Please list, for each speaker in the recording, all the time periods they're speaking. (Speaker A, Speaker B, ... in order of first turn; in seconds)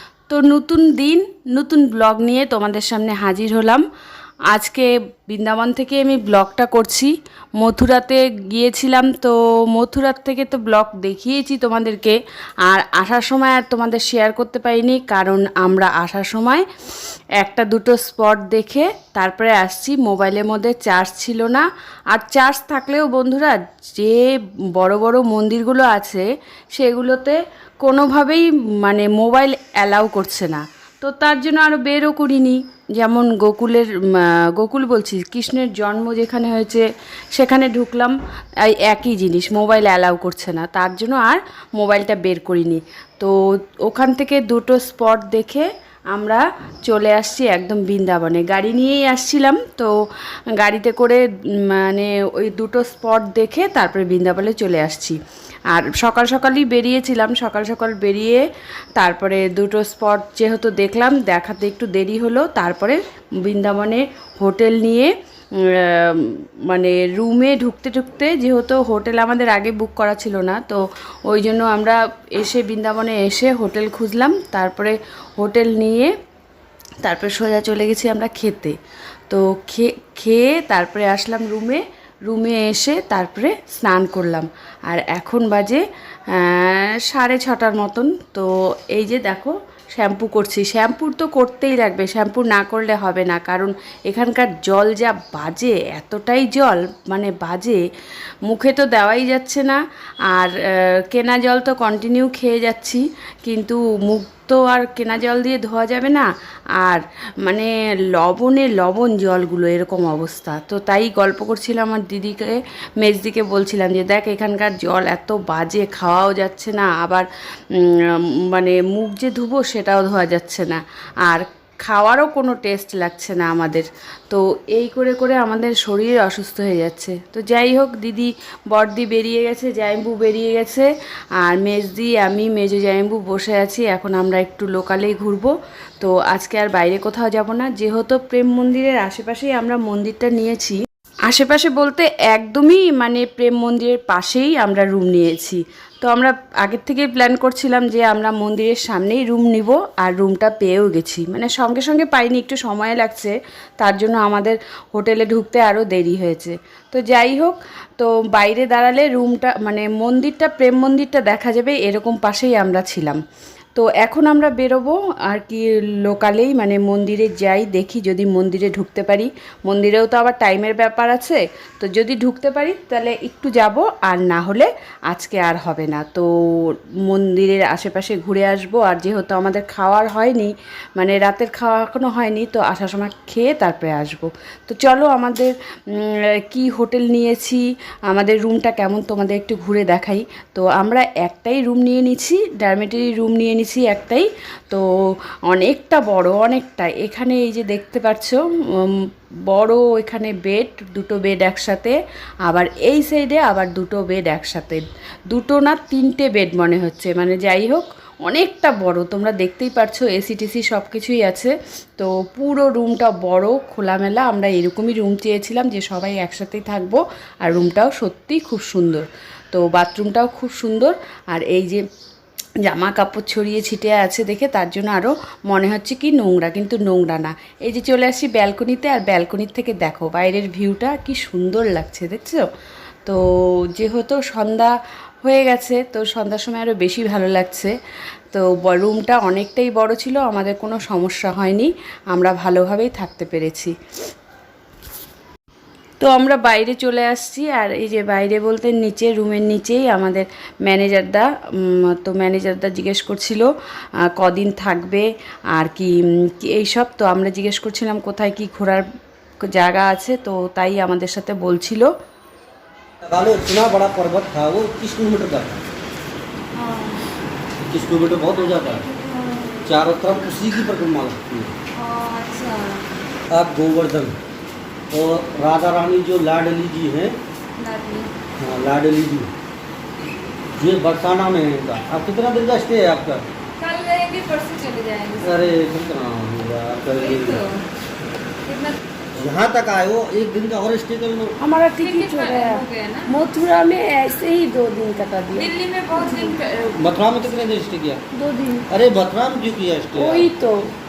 Speaker A: 0.3-3.8, 4.5-16.6, 17.4-49.9, 50.6-55.2, 55.7-58.4, 59.0-65.1, 65.7-76.1, 77.0-78.8, 79.3-97.8, 98.5-106.3, 106.8-163.2, 163.7-194.8, 195.5-221.8, 222.6-232.4, 233.7-237.7, 238.3-243.7, 246.0-253.5, 254.2-258.8, 259.4-261.9, 291.4-296.3, 298.1-298.6, 299.9-300.7
Speaker B: 263.0-265.6, 267.6-268.8, 269.6-271.5, 273.3-274.2, 274.9-277.2, 278.4-279.3, 280.6-283.2, 285.2-287.4, 289.1-291.4, 296.7-298.0, 298.7-300.3
Speaker C: 266.5-267.1, 268.4-269.7, 271.7-272.8, 277.6-278.1, 283.6-285.5, 287.0-287.6, 288.4-288.8, 291.8-293.1, 295.3-296.8